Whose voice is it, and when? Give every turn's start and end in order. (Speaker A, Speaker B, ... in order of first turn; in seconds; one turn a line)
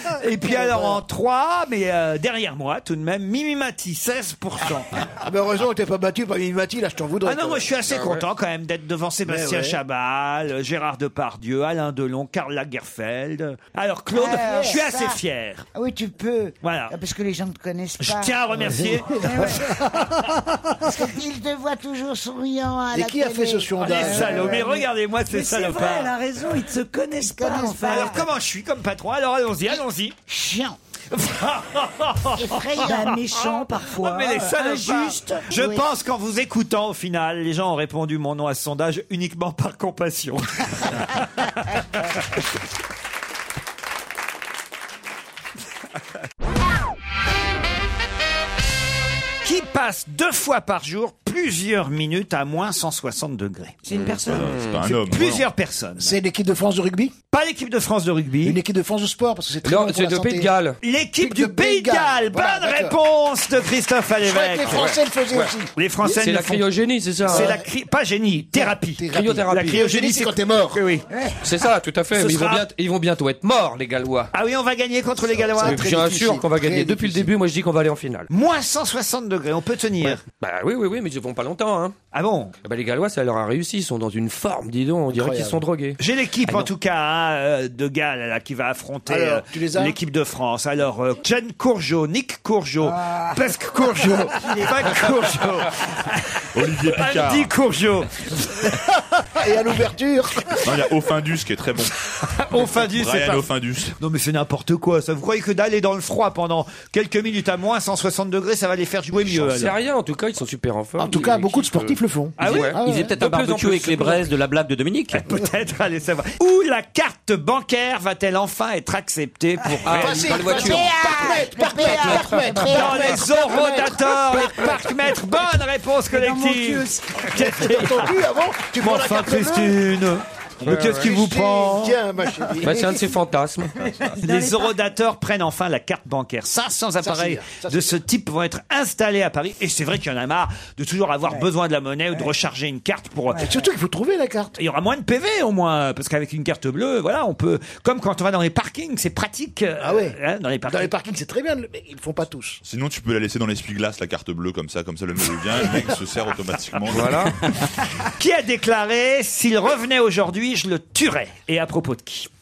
Speaker A: 0.2-5.0
Speaker B: 0.4-1.0
Speaker B: 5.2-7.8
Speaker A: 7.2-15.7
Speaker C: 7.9-8.2
Speaker B: 9.2-9.8
Speaker D: 14.1-15.2
Speaker D: 15.7-18.4
Speaker A: 16.6-16.9
Speaker A: 18.0-19.6
Speaker B: 18.6-20.9
Speaker E: 19.2-19.6
Speaker D: 20.8-24.6
Speaker B: 22.9-24.7
Speaker A: 23.8-26.2
Speaker E: 24.1-28.2
Speaker D: 27.2-28.3
Speaker A: 27.6-30.1
Speaker D: 30.3-30.8
Speaker A: 31.1-41.8
Speaker D: 32.3-33.1
Speaker E: 32.8-35.5
Speaker D: 35.5-35.9
Speaker A: 49.4-53.8
Speaker E: 53.8-54.5
Speaker C: 53.9-54.8
Speaker F: 54.1-55.5
Speaker A: 54.8-56.2
Speaker B: 56.0-57.1
Speaker A: 57.3-58.6
Speaker B: 58.4-60.5
Speaker C: 59.6-60.8
Speaker A: 60.8-64.9
Speaker B: 61.2-63.0
Speaker B: 64.2-66.2
Speaker C: 64.7-65.5
Speaker A: 65.7-66.7
Speaker C: 66.1-67.5
Speaker B: 67.2-67.7
Speaker A: 67.2-71.1
Speaker B: 68.5-70.8
Speaker C: 69.1-69.8
Speaker C: 71.4-74.3
Speaker A: 72.1-72.7
Speaker A: 74.3-75.9
Speaker B: 75.2-77.3
Speaker C: 75.6-78.3
Speaker A: 78.3-80.2
Speaker C: 80.3-82.0
Speaker A: 82.1-82.5
Speaker C: 82.6-86.7
Speaker B: 85.1-85.6
Speaker A: 86.0-98.7
Speaker B: 89.1-90.0
Speaker B: 93.9-94.3
Speaker F: 96.5-97.5
Speaker B: 98.7-100.8
Speaker F: 100.6-101.9
Speaker A: 102.2-103.5
Speaker F: 102.7-104.0
Speaker A: 104.0-109.8
Speaker C: 109.3-114.3
Speaker B: 111.0-113.2
Speaker A: 112.4-112.8
Speaker G: 112.8-115.2
Speaker A: 115.1-120.5
Speaker B: 119.9-125.0
Speaker C: 119.9-120.7
Speaker G: 119.9-120.8
Speaker D: 120.5-123.2
Speaker A: 122.5-128.2
Speaker E: 126.1-127.3
Speaker B: 127.3-129.9
Speaker A: 128.7-132.0
Speaker B: 130.6-133.1
Speaker C: 130.6-131.1
Speaker C: 132.6-133.7
Speaker E: 133.8-134.8
Speaker A: 134.2-143.5
Speaker B: 137.0-137.9
Speaker E: 143.3-143.6
Speaker B: 143.4-144.5
Speaker A: 144.6-150.9
Speaker B: 149.8-152.6
Speaker F: 152.6-157.3
Speaker C: 156.9-157.4
Speaker A: 158.2-162.3